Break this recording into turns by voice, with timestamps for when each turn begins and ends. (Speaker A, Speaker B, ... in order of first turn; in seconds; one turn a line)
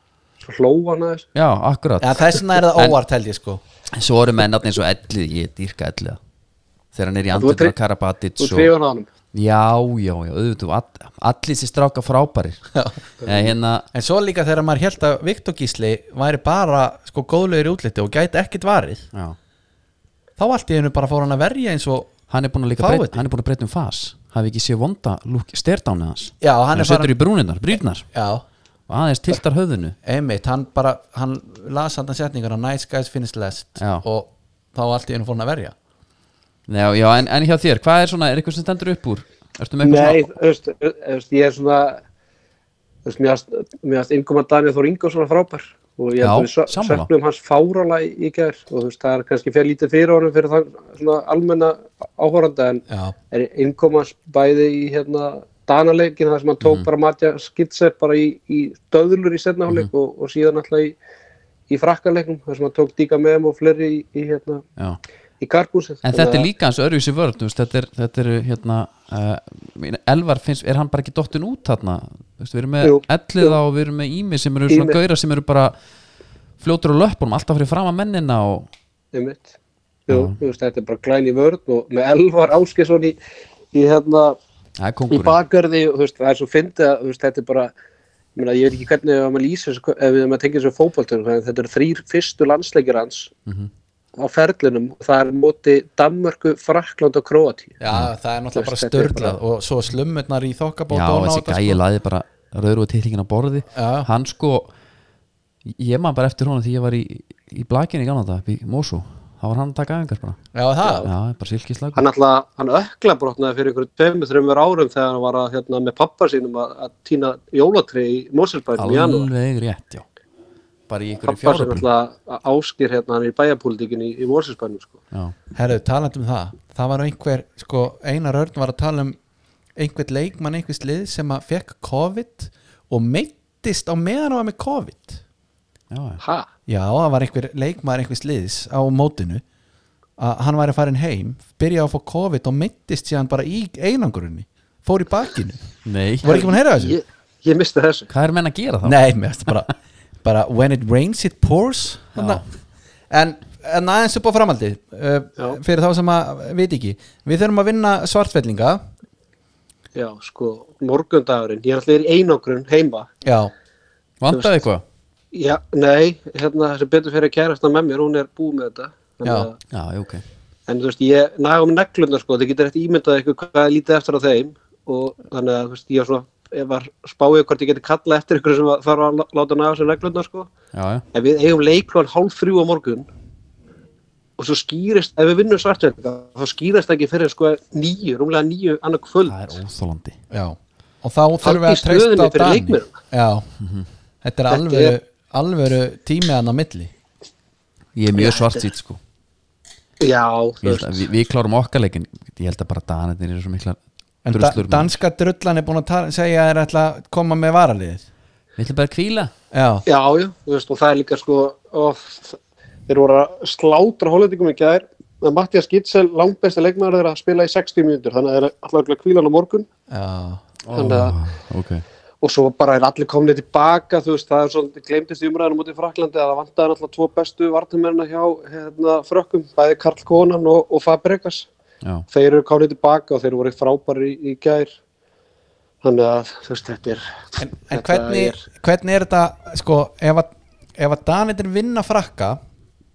Speaker A: 0.4-1.3
Speaker B: 1.3-3.0
Speaker C: 2.0-3.6
Speaker B: 3.9-6.2
Speaker B: 6.9-8.7
Speaker A: 7.3-7.7
Speaker A: 8.4-9.1
Speaker B: 9.3-12.7
Speaker C: 12.7-13.0
Speaker B: 13.2-13.9
Speaker C: 13.9-19.1
Speaker C: 20.4-22.1
Speaker B: 22.3-28.1
Speaker C: 22.8-23.2
Speaker C: 26.4-27.1
Speaker C: 28.1-28.4
Speaker B: 28.9-29.9
Speaker C: 30.0-35.8
Speaker B: 33.8-34.0
Speaker B: 36.7-40.3
Speaker A: 39.8-42.0
Speaker A: 43.0-61.0
Speaker B: 46.2-47.1
Speaker C: 52.9-53.1
Speaker B: 56.6-56.9
Speaker A: 61.7-64.6
Speaker A: 65.4-66.5
Speaker B: 66.0-75.8
Speaker A: 72.8-73.6
Speaker A: 74.7-75.0
Speaker B: 76.6-78.7
Speaker A: 79.1-79.5
Speaker A: 80.1-83.2
Speaker B: 80.1-80.4
Speaker A: 83.7-84.4
Speaker B: 84.8-85.4
Speaker A: 85.1-87.7
Speaker A: 88.3-93.3
Speaker A: 94.2-97.8
Speaker C: 97.8-101.8
Speaker A: 98.5-99.4
Speaker B: 100.9-104.7
Speaker C: 103.7-104.1
Speaker B: 105.7-110.4
Speaker C: 110.5-111.1
Speaker A: 110.8-111.1
Speaker B: 111.0-112.0
Speaker A: 111.9-119.3
Speaker B: 118.8-120.0
Speaker B: 120.9-121.8
Speaker A: 121.2-124.9
Speaker C: 125.5-129.2
Speaker C: 129.8-135.2
Speaker B: 135.9-136.2
Speaker A: 136.2-136.5
Speaker C: 136.7-139.4
Speaker C: 140.2-145.7
Speaker B: 145.8-146.3
Speaker C: 146.2-147.0
Speaker A: 146.2-148.1
Speaker B: 148.1-149.5
Speaker C: 148.8-149.7
Speaker C: 150.2-152.4
Speaker B: 152.2-152.4
Speaker C: 153.1-158.8
Speaker A: 159.9-163.1
Speaker C: 163.2-163.5
Speaker B: 164.2-164.8
Speaker A: 164.3-164.6
Speaker A: 165.3-169.6
Speaker C: 169.2-169.5
Speaker B: 169.7-170.2
Speaker A: 170.7-180.5
Speaker B: 180.7-181.0
Speaker A: 181.1-183.1
Speaker A: 184.4-189.5
Speaker B: 189.2-190.2
Speaker C: 190.3-193.5
Speaker A: 191.4-192.9
Speaker B: 193.6-193.9
Speaker C: 194.2-196.9
Speaker A: 194.5-194.9
Speaker B: 197.9-199.0
Speaker A: 198.2-198.6
Speaker A: 200.0-201.1
Speaker B: 200.6-203.8
Speaker C: 204.2-208.0
Speaker B: 204.3-205.0
Speaker B: 208.6-209.3
Speaker C: 209.5-209.8
Speaker A: 209.9-219.7
Speaker C: 219.9-220.4
Speaker B: 220.6-221.8
Speaker A: 220.7-221.2
Speaker A: 222.2-231.5
Speaker A: 232.1-234.7
Speaker A: 235.8-238.4
Speaker C: 237.4-242.4